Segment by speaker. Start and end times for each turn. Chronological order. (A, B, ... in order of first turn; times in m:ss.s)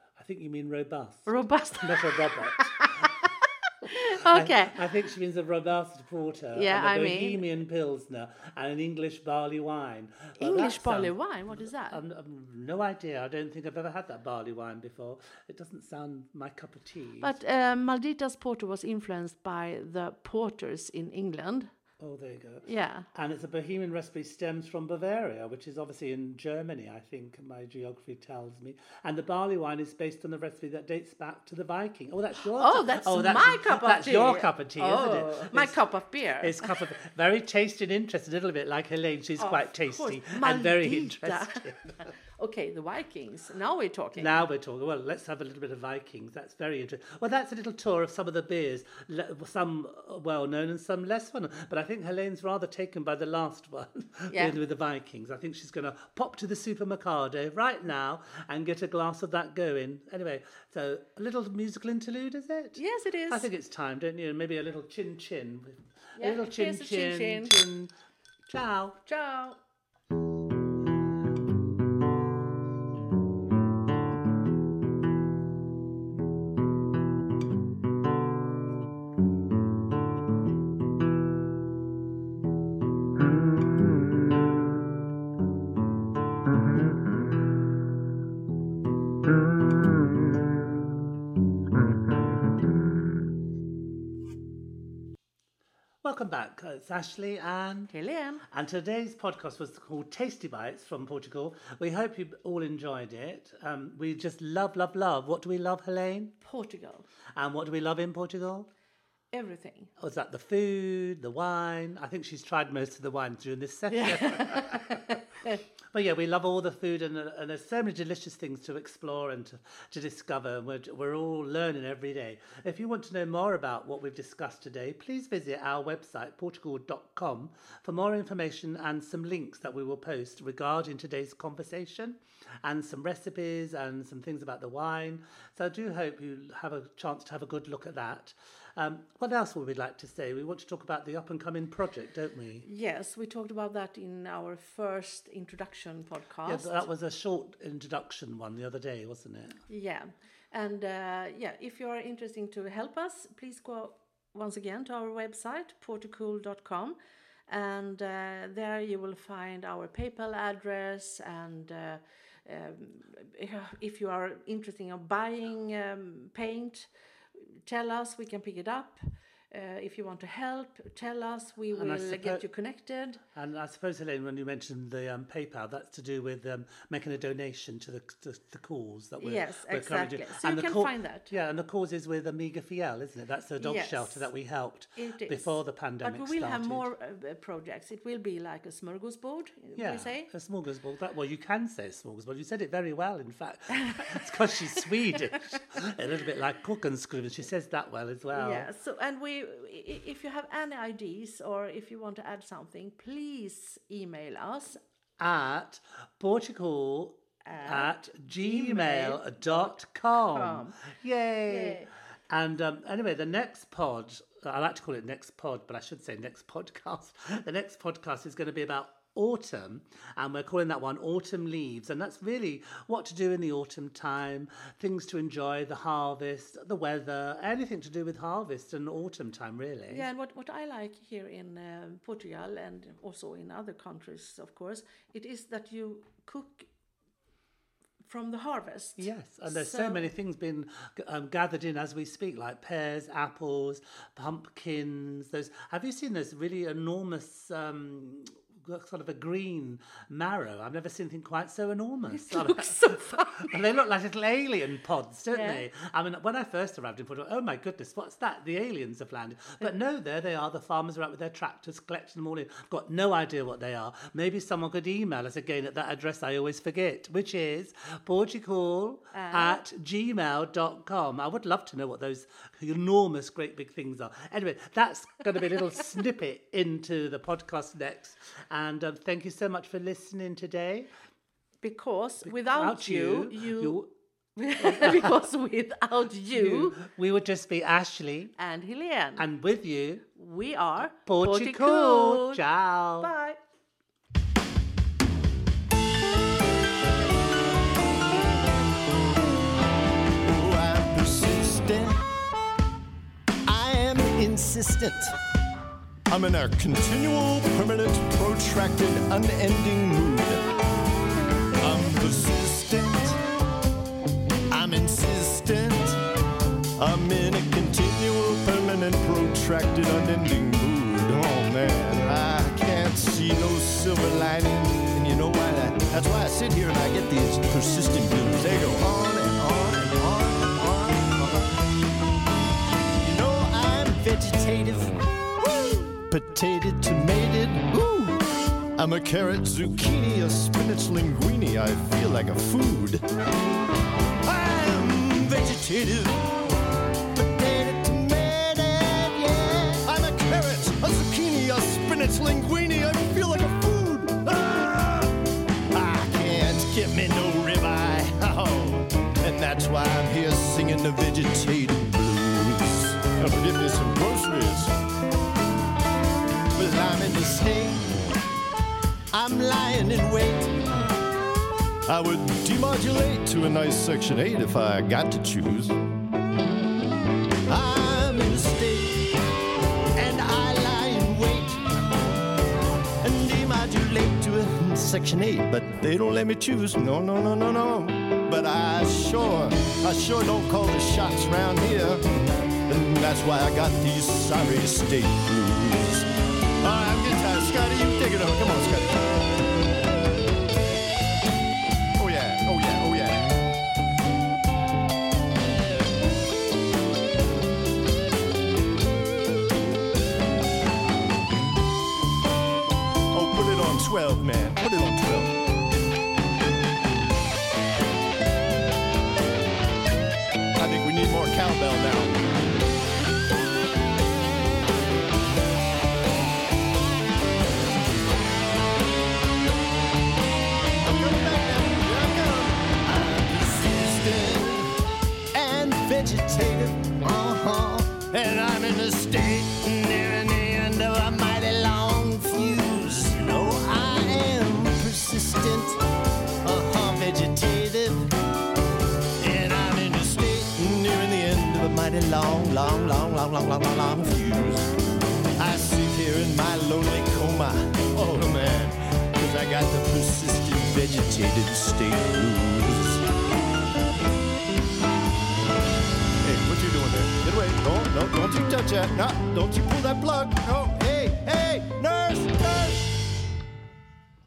0:00.2-0:03.1 A
0:01.3-0:04.8 B
0:03.8-0:17.4 A
0:06.5-0:07.4 B
0:10.4-0:12.0 B
0:17.2-0:21.7 B
0:22.0-0:35.8 A
0:22.6-0:23.1 B
0:32.5-0:36.7 B
0:36.4-0:42.1 A
0:39.4-0:44.4 B
0:44.2-1:07.9 A
0:54.3-0:54.6 B
1:02.8-1:03.5 B
1:06.2-1:07.6 B
1:08.5-1:09.0 A
1:09.0-1:09.6 B
1:36.0-1:37.9 A
1:37.9-1:38.4 B
1:38.4-1:46.3 A
1:46.4-1:47.1 B
1:47.3-1:48.7 A
1:49.3-1:49.9 B
1:50.0-1:55.2 A
1:53.9-1:55.6 B
1:55.9-2:22.7 A
2:22.6-2:26.8 B
2:26.4-2:29.6 A
2:29.7-2:37.0 B
2:37.5-2:46.9 B
2:47.6-2:53.2 B
2:51.7-2:52.4 A
2:53.3-3:06.9 A
2:59.2-3:01.3 B
3:03.6-3:04.3 B
3:05.0-3:10.3 B
3:09.8-3:18.7 A
3:13.7-3:15.6 B
3:18.3-3:24.8 B
3:25.2-3:50.1 A
3:27.4-3:30.8 B
3:31.5-3:31.9 B
3:49.9-3:56.7 B
3:58.0-4:00.1 B
3:59.0-4:40.9 A
4:12.1-4:13.6 B
4:15.3-4:15.6 B
4:29.1-4:29.6 B
4:41.6-4:43.8 B
4:42.2-4:43.9 A
4:44.4-4:46.8 B
4:44.6-4:45.2 A
4:46.3-4:48.3 A
4:48.4-4:49.2 B
4:49.2-4:50.0 A
4:50.1-4:52.4 B
4:50.9-4:53.1 A
4:53.0-4:53.4 B
5:00.2-5:02.0 C
5:03.5-5:05.2 C
5:06.1-5:10.4 C
5:11.6-5:13.2 C
5:14.5-5:16.0 C
5:16.8-5:31.7 C
5:33.0-5:43.0 C
5:44.2-5:46.5 C
5:47.1-5:55.2 C
5:55.7-6:04.7 C
6:06.6-6:08.0 C
6:09.1-6:10.6 C
6:11.9-6:15.8 C
6:17.5-6:19.1 C
6:19.9-6:21.6 C
6:23.0-6:32.0 C
6:32.7-6:36.1 C
6:36.6-6:39.3 C
6:42.0-6:43.3 C
6:53.1-6:55.3 C
7:00.6-7:02.2 C
7:10.8-7:14.7 C
7:15.3-7:25.8 C
7:26.4-7:28.1 C
7:29.2-7:34.7 C
7:35.4-7:43.0 C
7:46.2-7:53.0 C